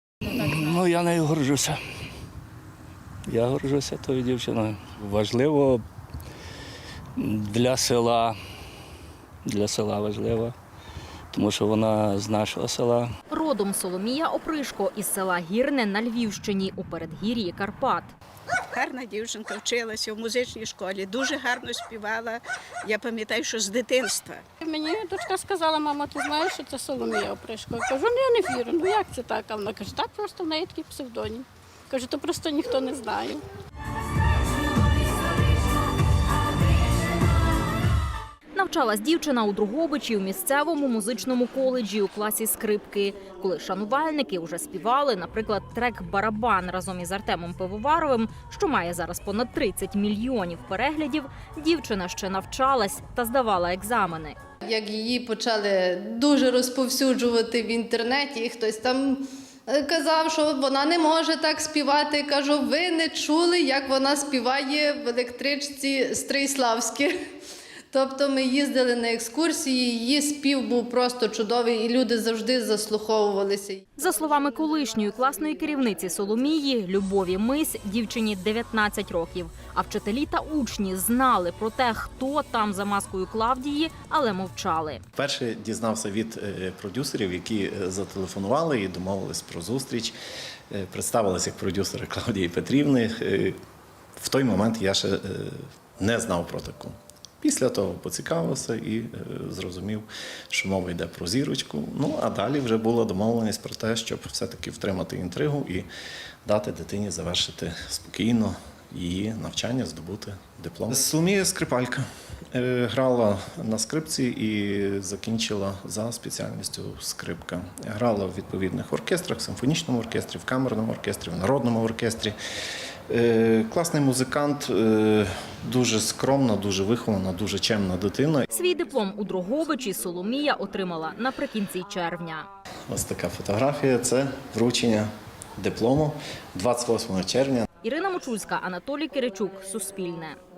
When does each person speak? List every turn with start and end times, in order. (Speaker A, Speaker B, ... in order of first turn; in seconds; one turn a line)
Speaker A: 0.3-1.8
Speaker A: 3.3-5.8
Speaker A: 7.2-8.4
Speaker A: 9.4-10.5
Speaker A: 11.3-13.1
Speaker B: 13.3-18.1
Speaker C: 18.7-24.4
Speaker D: 24.6-33.4
Speaker B: 38.5-54.4
Speaker E: 54.6-67.1
Speaker E: 67.9-73.8
Speaker B: 74.0-85.0
Speaker F: 85.1-90.2
Speaker F: 90.7-93.6
Speaker F: 94.2-105.9
Speaker F: 106.4-122.4
Speaker F: 123.1-128.4
Speaker B: 128.5-132.5
Speaker F: 132.9-137.6
Speaker B: 137.8-140.4